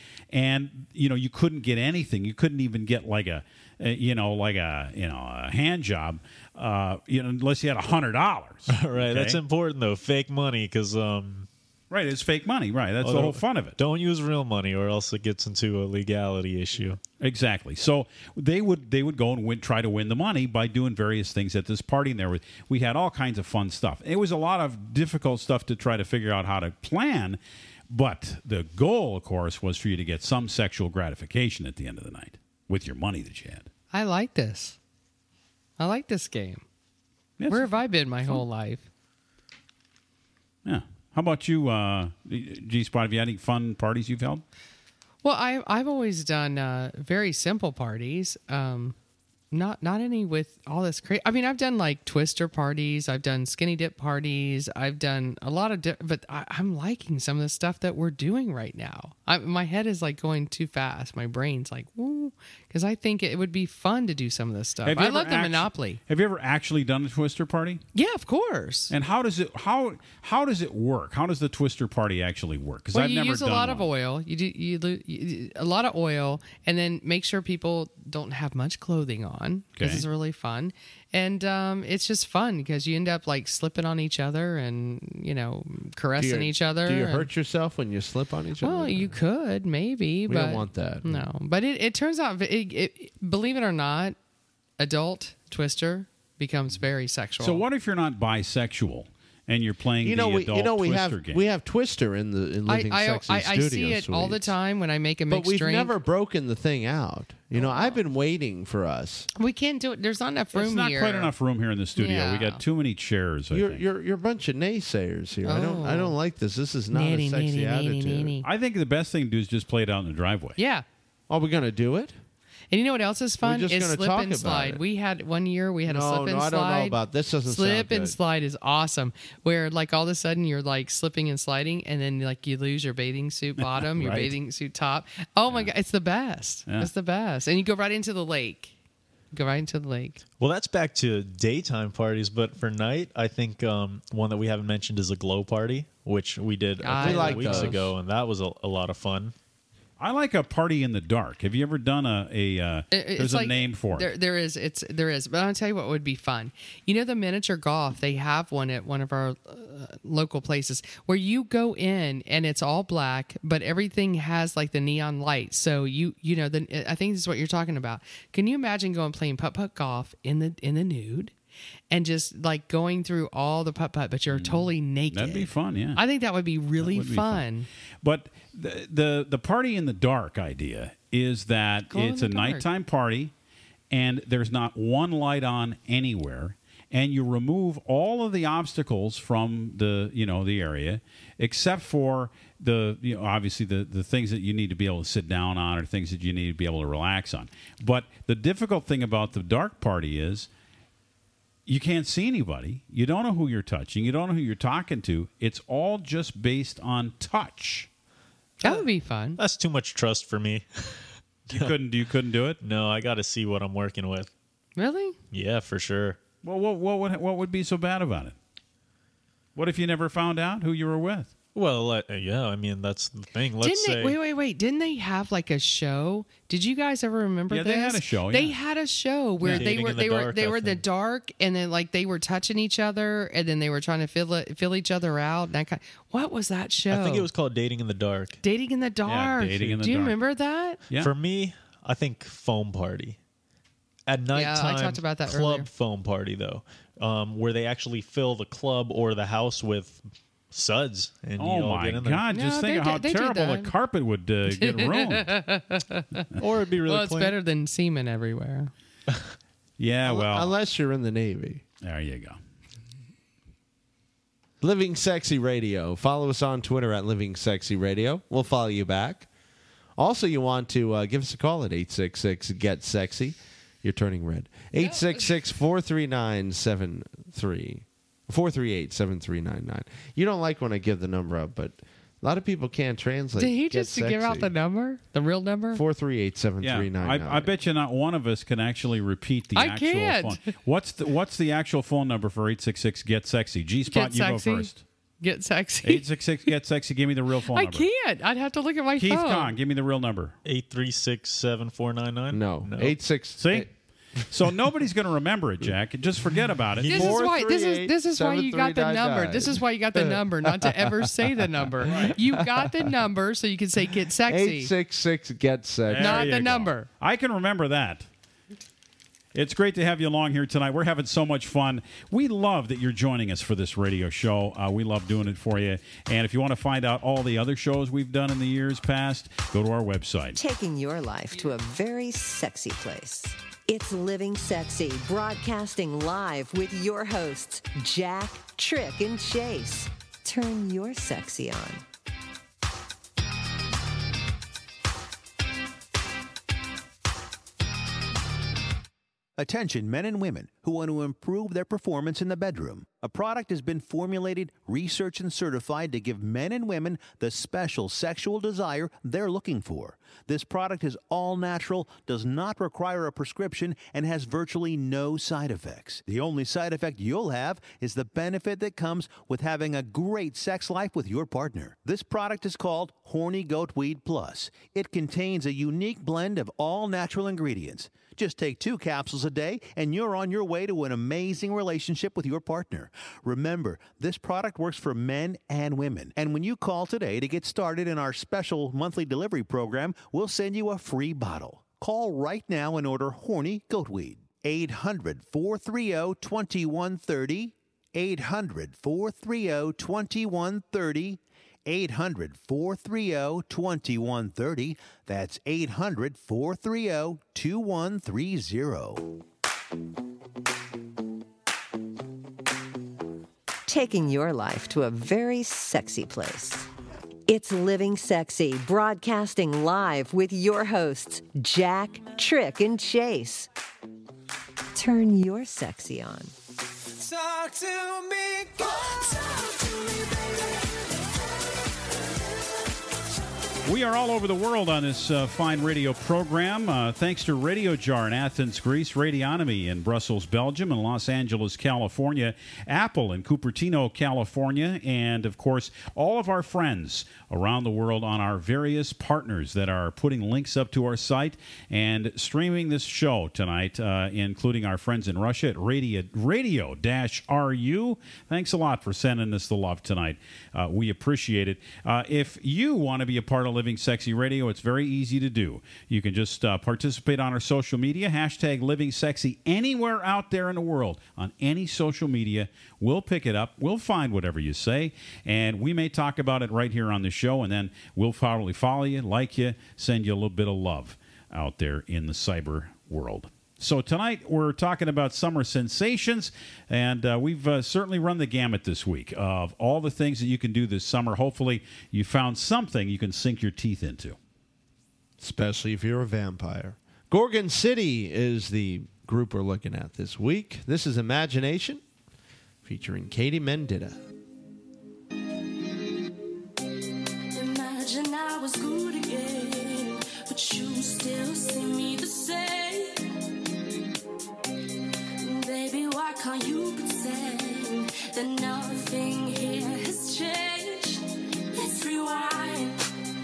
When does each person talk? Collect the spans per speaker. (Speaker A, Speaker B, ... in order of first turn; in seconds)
Speaker A: 0.3-9.4, 11.9-13.8, 17.2-27.4, 27.9-33.7, 37.4-37.7, 40.6-44.4, 64.8-67.8, 68.9-73.9, 79.8-80.0, 97.4-101.4, 110.5-113.8, 118.4-120.6, 133.8-134.3, 150.0-154.1, 174.3-176.0, 176.8-177.5, 178.0-183.3, 183.9-200.5, 201.7-207.9, 211.5-212.6, 216.4-218.4, 219.6-221.3, 227.5-228.6, 239.1-240.2, 251.4-255.4, 259.8-260.5, 261.8-262.4, 286.6-294.8, 295.8-297.9, 299.0-300.4, 303.4-303.7, 304.3-307.1, 311.9-312.2, 315.9-318.1, 319.4-330.4, 433.6-494.2
Speaker B: 8.7-11.5, 13.0-17.0, 140.4-149.3, 209.4-210.7, 211.5-211.7, 212.6-214.3, 215.3-216.2, 221.6-224.2, 229.4-230.8, 236.9-238.4, 241.0-243.2, 244.1-252.2, 256.4-257.4, 300.4-303.0
Speaker C: 33.9-34.8, 35.8-36.6, 37.5-38.9, 45.2-49.0, 49.5-66.0, 68.0-68.9, 72.9-87.3, 88.6-94.2, 94.8-97.6, 102.7-106.0, 107.5-108.0, 109.4-111.3, 112.0-112.6, 115.4-116.2, 116.9-118.5, 120.6-120.8, 122.7-138.7, 139.3-140.2, 146.8-147.8, 152.9-171.3, 171.9-177.7, 181.9-182.7, 208.6-209.4, 214.8-215.2, 223.6-237.3, 238.4-240.8, 244.3-245.7, 252.3-253.7, 254.6-256.3, 256.9-258.7, 274.8-275.2, 283.4-285.8, 289.6-290.4, 293.9-294.7, 295.2-296.1, 297.5-299.5, 306.9-314.7, 316.0-316.9
Speaker D: 86.2-89.1, 90.3-91.3, 100.0-104.5, 105.3-109.3, 113.5-118.3, 121.3-122.2, 123.4-124.8, 125.9-128.2, 147.0-147.9, 260.0-261.6, 264.6-269.3, 270.0-284.5, 285.7-287.5, 302.3-303.7, 306.9-311.1, 314.3-316.3, 495.2-501.8, 502.6-504.0
Speaker E: 330.4-341.8, 413.7-416.7, 417.3-423.5, 424.8-426.3
Speaker F: 349.4-409.1
Speaker G: 427.0-430.5
Speaker H: 507.3-513.1, 515.2-522.8